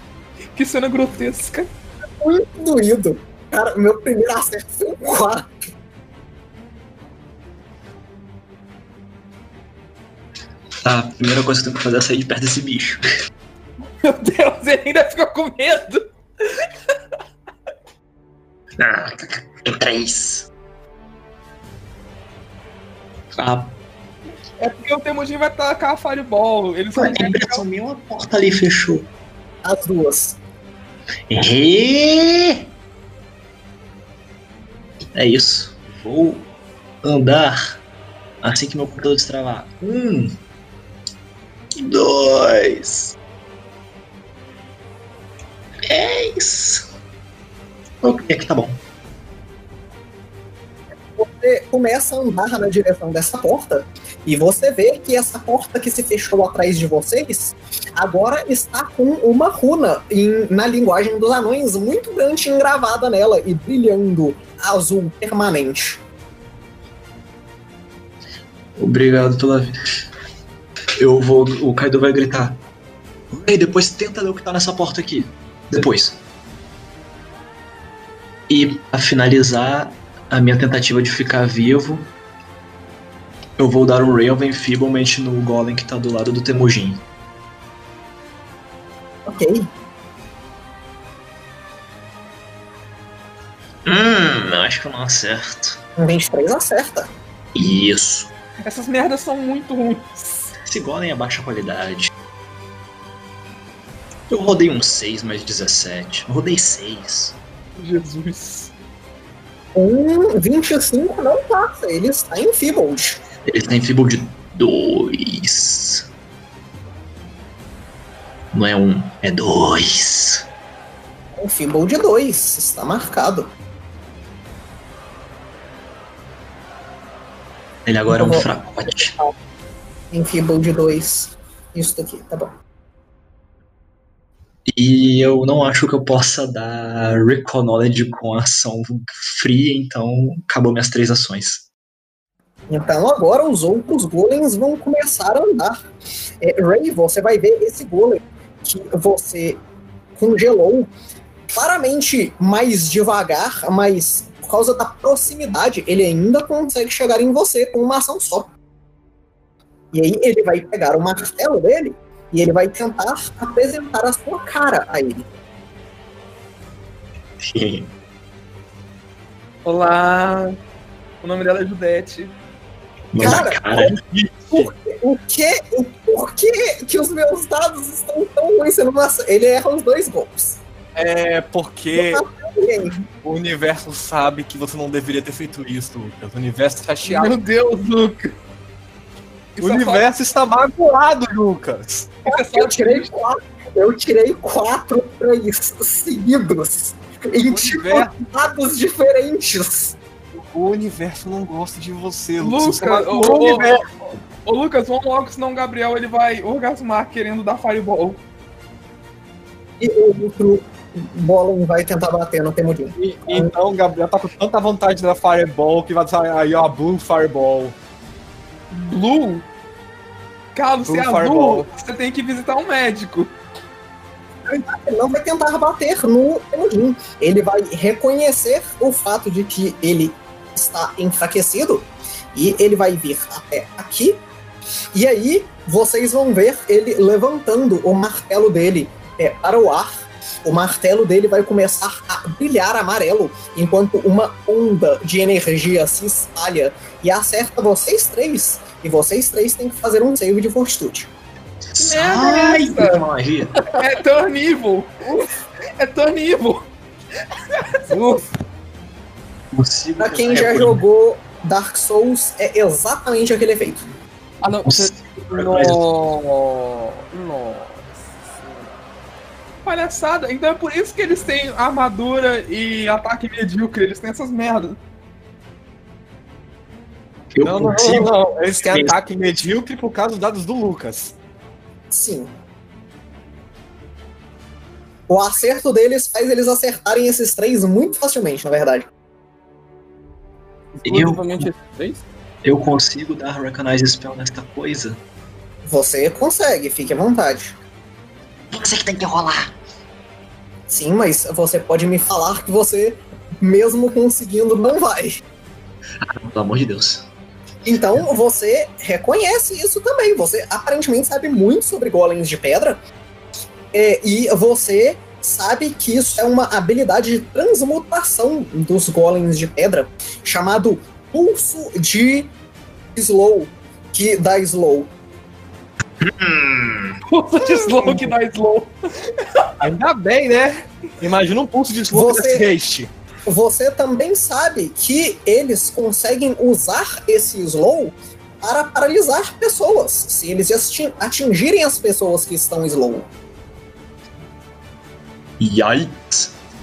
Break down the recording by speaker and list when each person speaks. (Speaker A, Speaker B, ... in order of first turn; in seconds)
Speaker A: 0.6-1.7, 14.0-16.1, 24.6-27.6, 98.6-100.5, 107.8-108.7, 169.6-170.5, 171.2-172.3, 187.0-188.3, 189.6-190.1, 192.2-193.1, 202.4-203.8, 204.4-208.2, 218.7-219.4, 220.6-223.3, 251.8-253.1, 253.6-256.7, 257.5-258.2, 269.6-274.8, 327.1-328.7
Speaker B: 2.2-5.5, 29.6-30.4, 51.2-66.0, 89.3-89.7, 96.0-97.1, 109.7-113.2, 121.4-123.5, 128.1-129.3, 130.1-132.5, 142.7-145.8, 146.4-149.6, 150.2-150.9, 151.5-158.5, 159.9-165.3, 173.2-173.9, 174.5-180.6, 181.9-183.0, 192.3-199.9, 209.8-213.5, 224.5-234.2, 234.9-251.1, 260.0-263.8, 281.9-282.3, 285.1-288.9, 295.6-297.6, 300.7-305.2, 307.6-312.8, 313.7-322.3, 322.9-324.9, 331.9-332.5, 333.3-343.1
Speaker C: 10.8-13.0, 18.8-20.5, 23.4-23.8, 26.9-29.1, 31.3-32.7, 35.1-36.5, 37.0-37.7, 38.4-40.4, 41.7-43.2, 45.9-46.9, 48.0-48.8, 68.8-69.7, 71.0-72.6, 73.3-76.2, 78.5-82.1, 83.6-87.0, 93.8-95.8, 97.5-98.3, 100.6-102.1, 104.3-107.4, 113.5-116.1, 118.5-120.5, 127.9-129.1, 134.7-141.7, 167.4-167.9, 173.1-174.0, 251.7-253.7, 259.5-260.8, 264.6-265.9, 277.3-278.1, 278.7-279.0, 290.8-291.5, 292.4-295.0, 298.5-299.5, 306.0-307.1, 326.0-327.0, 345.4-346.3
Speaker D: 174.1-174.7, 180.9-182.2, 183.2-187.4, 189.6-192.1, 197.4-198.1, 200.3-203.8, 212.9-217.8, 220.8-221.7, 277.4-281.1, 329.6-332.9
Speaker E: 267.1-267.6, 268.2-268.7, 290.8-292.0